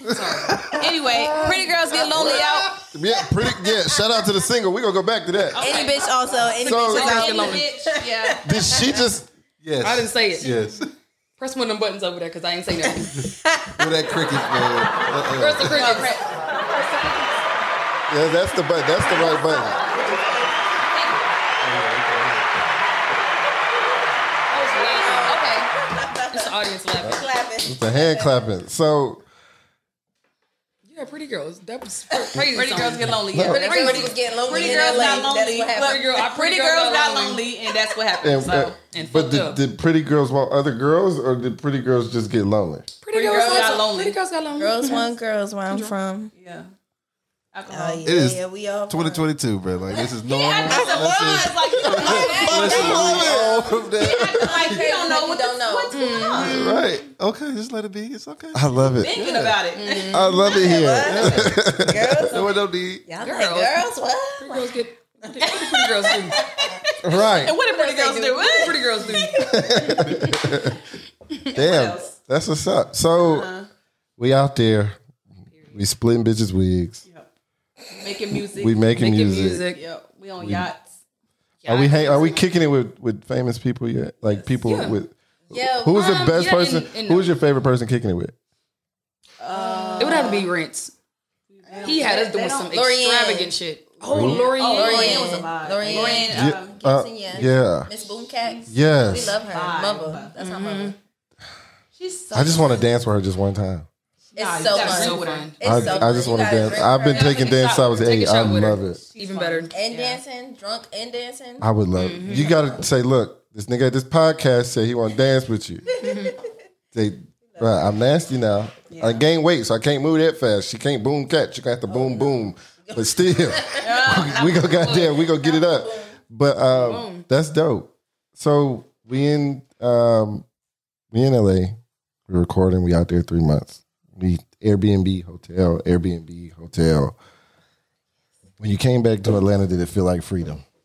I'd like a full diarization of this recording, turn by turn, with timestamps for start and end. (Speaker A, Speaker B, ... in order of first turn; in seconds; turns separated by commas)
Speaker A: 0.1-0.6, Speaker B: 0.1-0.8, Speaker C: 0.7-2.8, Speaker D: 1.1-4.3, Speaker A: 1.3-2.6, Speaker E: 2.1-5.7, Speaker C: 5.5-8.4, Speaker D: 5.6-9.1, Speaker E: 6.6-7.3, Speaker A: 6.8-7.7, Speaker E: 8.4-10.8, Speaker A: 9.8-10.5, Speaker B: 10.4-10.7, Speaker A: 11.4-13.3, Speaker D: 13.0-14.9, Speaker B: 13.8-16.0, Speaker A: 15.3-16.3, Speaker C: 15.6-16.4, Speaker D: 15.9-17.6, Speaker E: 18.1-19.9, Speaker D: 18.9-20.8, Speaker E: 21.6-22.5, Speaker A: 24.5-25.4, Speaker D: 24.5-28.5, Speaker C: 25.1-25.7, Speaker A: 26.3-27.3, Speaker E: 27.0-29.2, Speaker A: 30.9-37.4, Speaker D: 32.1-32.4, Speaker C: 32.5-38.8, Speaker E: 33.3-33.6, Speaker D: 33.4-36.3, Speaker E: 38.2-42.9, Speaker A: 38.9-39.6, Speaker A: 43.0-45.1, Speaker C: 43.1-44.2, Speaker D: 43.2-43.8, Speaker D: 44.5-46.3, Speaker C: 46.4-46.7, Speaker C: 47.5-48.0, Speaker D: 47.7-49.3, Speaker B: 48.0-54.3, Speaker C: 49.9-53.3, Speaker D: 50.7-56.4, Speaker E: 51.9-54.5, Speaker C: 54.1-56.6, Speaker A: 55.9-56.9, Speaker E: 56.4-57.0, Speaker B: 56.5-59.6, Speaker E: 58.5-59.1, Speaker C: 59.0-61.6, Speaker A: 59.7-60.6, Speaker E: 60.1-62.2, Speaker D: 60.4-70.4, Speaker B: 61.0-61.7, Speaker C: 62.2-62.6, Speaker B: 62.3-63.1, Speaker A: 63.2-63.8, Speaker A: 64.4-66.4, Speaker C: 65.4-69.1, Speaker E: 67.0-67.5, Speaker A: 68.4-69.4, Speaker E: 69.4-70.8, Speaker A: 70.0-70.4, Speaker C: 71.5-72.1, Speaker E: 71.5-73.5, Speaker C: 73.2-73.7, Speaker E: 74.2-75.0, Speaker E: 75.7-77.0, Speaker C: 77.9-78.8, Speaker E: 78.6-79.7, Speaker A: 78.9-79.8, Speaker C: 79.7-80.8, Speaker E: 80.4-80.7, Speaker A: 81.6-82.5, Speaker E: 81.7-88.3, Speaker A: 84.6-85.0, Speaker D: 85.5-86.2, Speaker A: 85.9-87.3, Speaker C: 89.4-90.5, Speaker D: 89.5-90.5, Speaker A: 90.0-90.9, Speaker C: 91.5-92.7, Speaker D: 91.7-92.2, Speaker A: 91.8-96.2, Speaker D: 92.7-93.6, Speaker C: 94.0-96.8, Speaker E: 94.0-94.5, Speaker D: 94.6-101.0, Speaker E: 96.3-97.9, Speaker C: 98.2-100.3, Speaker E: 98.7-99.4, Speaker A: 100.4-101.0, Speaker C: 102.0-102.9, Speaker E: 102.3-103.9, Speaker D: 104.3-107.7, Speaker C: 104.3-106.0, Speaker A: 104.6-106.2, Speaker E: 105.6-109.0, Speaker A: 107.0-109.7, Speaker C: 109.0-110.2, Speaker D: 109.7-111.7, Speaker E: 111.6-115.8, Speaker A: 112.0-112.6, Speaker D: 112.3-112.8, Speaker A: 115.9-116.4, Speaker D: 116.0-116.5, Speaker E: 116.9-130.5, Speaker D: 117.5-117.9, Speaker C: 118.9-119.2, Speaker D: 121.9-126.2, Speaker C: 123.8-124.7, Speaker A: 124.7-125.2, Speaker A: 126.7-127.3, Speaker E: 131.1-131.8, Speaker E: 132.3-137.2, Speaker E: 138.6-140.6